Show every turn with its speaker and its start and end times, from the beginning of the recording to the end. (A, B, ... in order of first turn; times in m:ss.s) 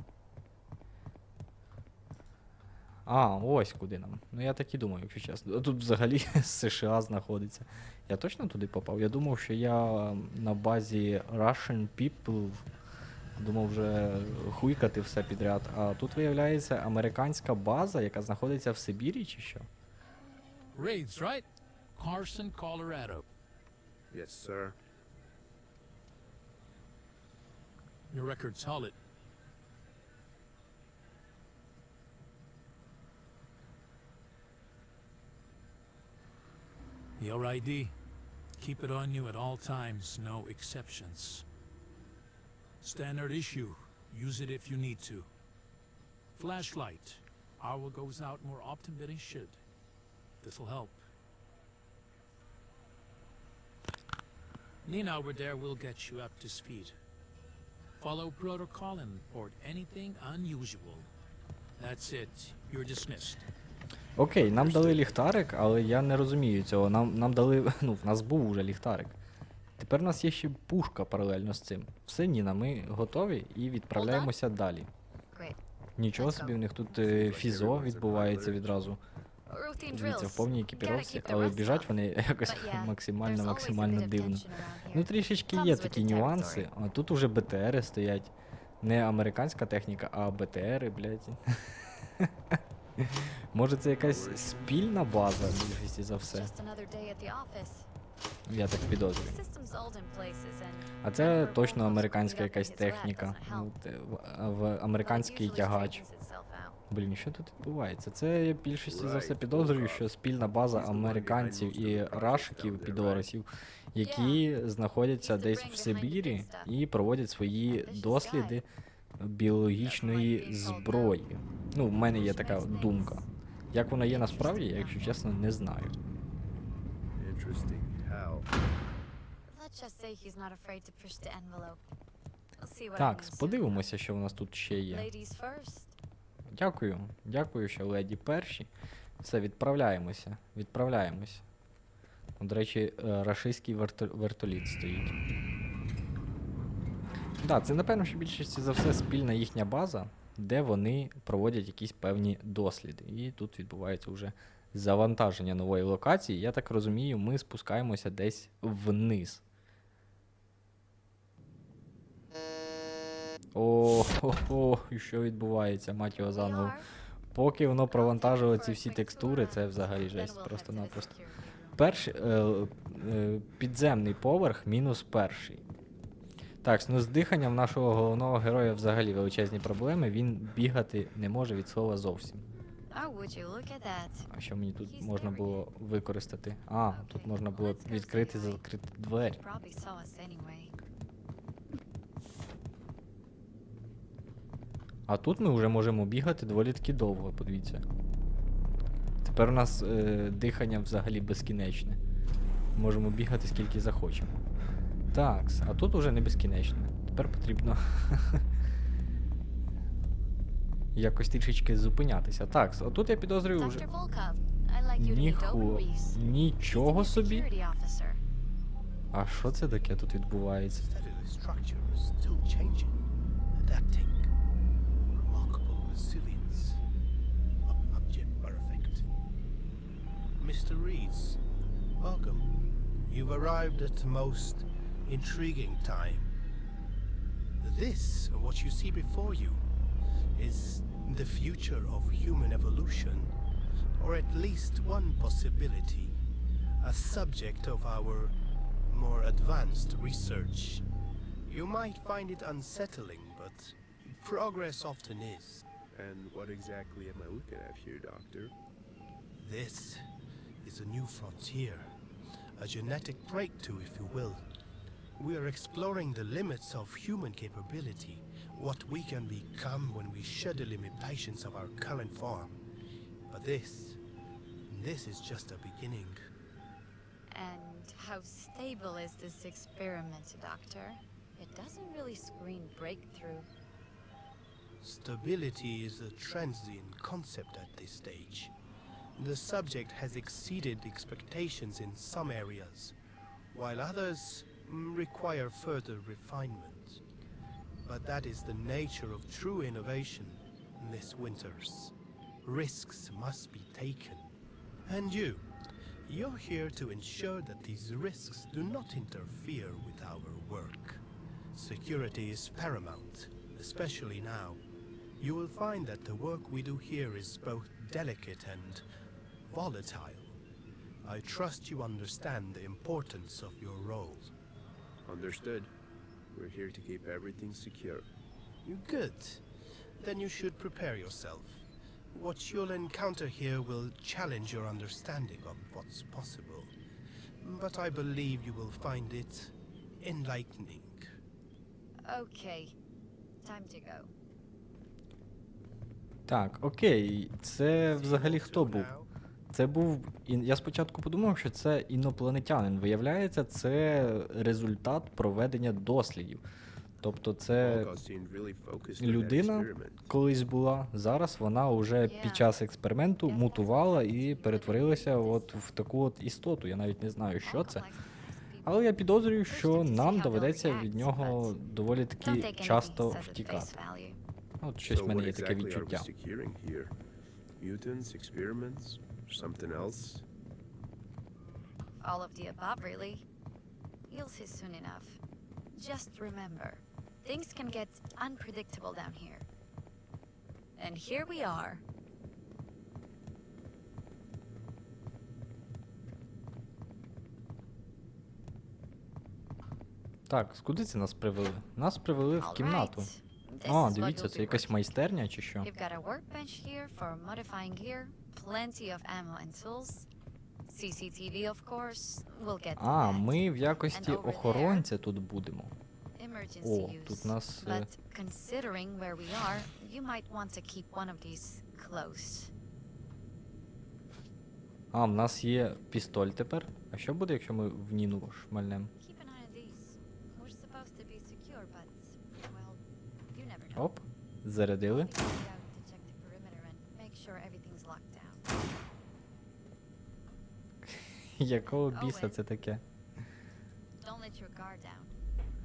0:03.0-0:12.6 A
0:13.4-0:19.7 A
0:20.7-0:23.2 B
0:24.1-0:24.7 C
0:28.1-0:29.0 B
0:37.2-0:37.9 B
0:38.6-0:41.4 B
0:42.8-0:45.3 B
0:46.3-0:49.6 B
0:50.4-0:51.0 B
0:54.8-0:57.0 B
0:58.0-1:01.1 B
1:01.8-1:03.5 B
1:04.2-1:09.2 A
1:04.4-1:05.1 C
1:09.8-1:14.9 A
1:13.9-1:14.3 D
1:16.0-1:19.0 A
1:16.1-1:16.6 D
1:16.9-1:18.9 C
1:19.5-1:21.9 D
1:19.9-1:31.6 A
1:22.4-1:26.7 D
1:32.2-1:36.5 A
1:34.0-1:35.8 C
1:36.3-1:37.9 D
1:38.5-1:39.4 A
1:39.2-1:43.7 D
1:41.0-1:46.0 A
1:45.0-1:46.8 D
1:46.9-1:58.6 A
1:48.8-1:50.1 C
1:50.6-1:53.3 C
1:54.0-1:54.5 D
1:55.2-1:56.7 D
1:57.7-1:58.6 D
1:59.2-2:05.9 A
1:59.8-2:01.2 D
2:02.0-2:03.3 D
2:04.0-2:05.2 D
2:07.2-2:08.5 C
2:09.5-2:11.8 D
2:12.6-2:13.8 D
2:13.0-2:15.1 A
2:14.9-2:15.9 D
2:16.5-2:18.7 A
2:19.2-2:21.4 A
2:22.4-2:25.1 A
2:27.4-2:39.4 A
2:43.5-2:46.8 A
2:46.1-2:46.8 D
2:47.3-2:51.1 A
2:47.9-2:51.8 D
2:51.8-2:55.6 A
2:56.6-3:02.4 A
3:02.9-3:04.3 D
3:04.3-3:09.4 A
3:04.8-3:05.6 D
3:06.9-3:08.6 D
3:09.2-3:10.7 D
3:15.1-3:17.8 A
3:19.2-3:22.0 A
3:22.8-3:24.3 A
3:25.1-3:28.4 A
3:30.9-3:33.8 A
3:33.6-3:38.2 D
3:35.0-3:37.5 A
3:39.1-3:40.8 A
3:39.4-3:39.8 E
3:40.7-3:44.3 E
3:45.2-3:46.8 E
3:47.6-3:49.1 E
3:50.4-3:51.4 E
3:52.0-3:52.5 E
3:53.1-3:56.3 E
3:57.6-3:59.6 E
4:00.3-4:03.3 E
4:04.0-4:06.2 E
4:06.8-4:08.3 E
4:08.9-4:10.8 E
4:11.4-4:15.7 E
4:15.9-4:18.5 C
4:19.4-4:20.0 E
4:20.6-4:21.9 E
4:22.6-4:24.4 E
4:25.2-4:32.6 E
4:33.3-4:34.0 E
4:34.7-4:36.2 E
4:37.3-4:43.5 D
4:44.8-4:48.5 E
4:49.2-4:52.9 E
4:53.5-4:57.0 E
4:57.8-5:05.5 E
5:06.0-5:14.6 E
5:15.2-5:18.8 E
5:19.5-5:20.4 E
5:21.0-5:24.3 E
5:25.0-5:25.7 C
5:26.3-5:28.1 C
5:28.6-5:29.4 E
5:30.0-5:36.7 E
5:37.4-5:41.1 E
5:42.0-5:42.7 D
5:43.4-5:44.1 D
5:46.3-5:48.9 A
5:47.8-5:49.1 E
5:49.5-5:56.4 A
5:57.0-5:57.9 A
5:57.6-6:00.1 C
5:59.0-6:07.8 A
6:02.0-6:02.6 D
6:03.2-6:05.6 D
6:07.4-6:11.6 D
6:08.6-6:13.7 A
6:12.2-6:14.2 D
6:14.6-6:16.1 A
6:14.8-6:16.9 C
6:17.6-6:20.2 C
6:22.0-6:23.2 D
6:24.1-6:25.2 D
6:25.7-6:29.4 D
6:30.8-6:31.8 D
6:40.3-6:43.1 A
6:42.4-6:45.0 D
6:43.6-6:45.7 A
6:45.6-6:50.1 D
6:50.6-6:54.9 D
6:52.8-6:55.7 A
6:56.2-7:02.5 D
6:56.6-6:57.9 A
7:04.9-7:08.9 A
7:09.0-7:12.8 D
7:13.3-7:13.9 D
7:13.7-7:15.1 A
7:14.9-7:18.5 D
7:20.8-7:22.8 A
7:21.6-7:22.4 D
7:24.0-7:25.1 D